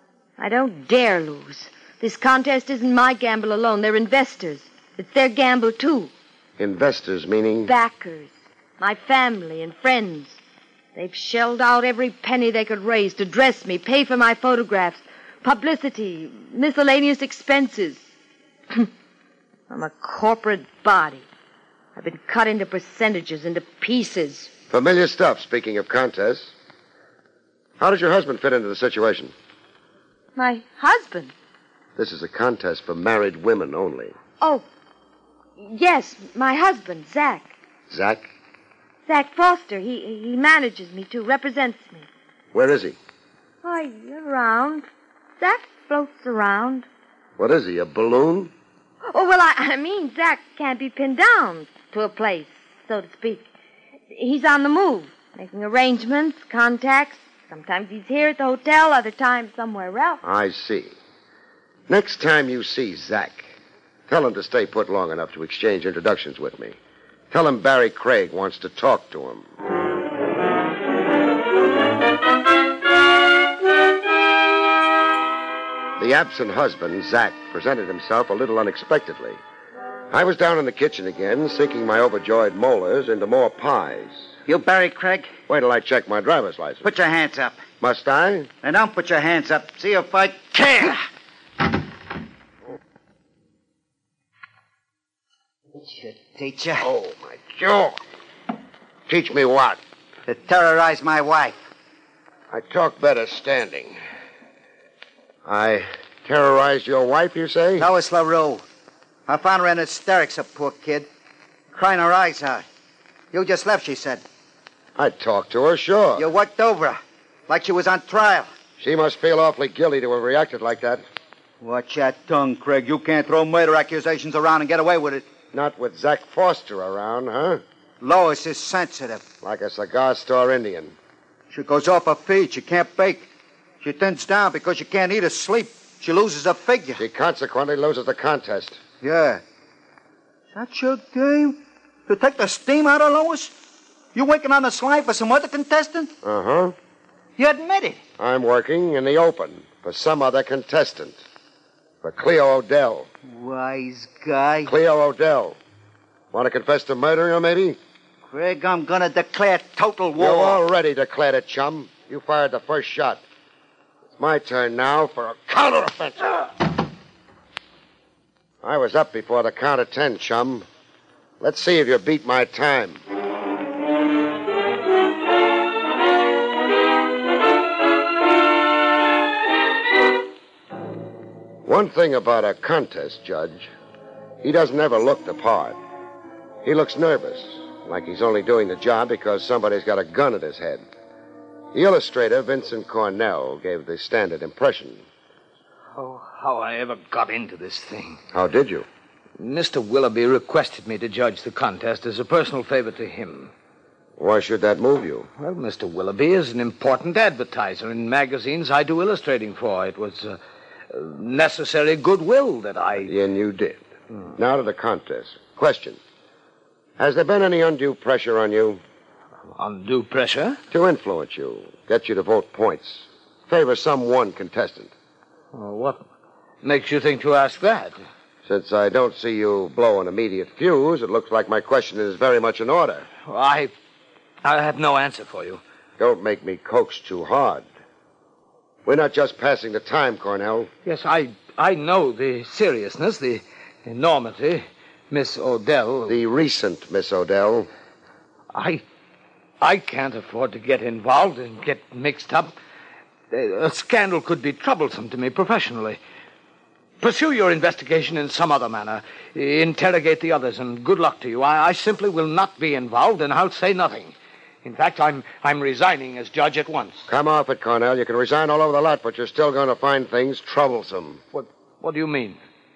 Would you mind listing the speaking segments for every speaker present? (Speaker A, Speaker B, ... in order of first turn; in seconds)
Speaker A: 0.4-6.1, 7.6-10.4, 10.9-18.1, 19.7-21.3, 22.0-24.6, 30.4-31.3, 34.4-34.6, 35.6-37.5, 39.1-42.1, 43.6-44.9, 45.4-46.9, 49.1-53.5, 54.1-60.2
Speaker B: 6.6-7.7, 24.7-26.5, 27.8-29.3, 32.0-34.1, 37.9-38.3, 42.5-43.0, 47.4-48.5, 60.2-61.0, 61.9-63.5, 64.1-66.8, 67.3-69.5, 76.0-79.4, 80.1-84.3, 85.5-86.9, 87.8-88.5, 96.8-98.0, 99.1-99.8, 102.5-104.0, 105.5-107.9, 115.0-116.3, 118.8-121.0, 125.5-127.6, 129.4-131.0, 137.0-138.8, 146.2-146.8, 148.2-151.2, 152.0-153.1, 154.7-155.6, 156.3-157.8, 160.2-163.2, 164.2-166.4, 168.6-170.7, 171.4-173.0, 181.7-183.7, 184.4-185.8, 186.6-190.8, 191.7-195.1, 198.3-198.9, 204.2-205.3, 213.0-213.8, 214.3-216.0, 217.0-218.8, 220.7-224.9, 228.5-233.1, 236.0-237.7, 238.9-240.7, 246.1-247.7, 267.1-271.2
Speaker C: 84.5-85.3, 86.8-87.7, 88.6-91.0, 95.8-96.9, 100.3-101.6, 107.8-108.6, 109.3-111.1, 111.7-112.7, 113.3-114.2, 116.2-118.5, 121.6-125.3, 128.0-129.2, 131.5-133.3, 133.8-137.0, 139.0-139.4, 140.5-143.5, 144.1-146.1, 147.4-148.0, 153.2-154.7, 158.3-160.6
Speaker D: 195.9-198.2, 199.4-203.5, 205.4-210.4, 210.9-213.1, 219.5-220.6, 225.5-226.1, 226.6-228.0, 233.3-233.7, 234.4-235.6, 240.8-246.2, 248.5-248.8, 249.6-252.5, 253.3-256.0, 257.0-267.0, 271.3-272.4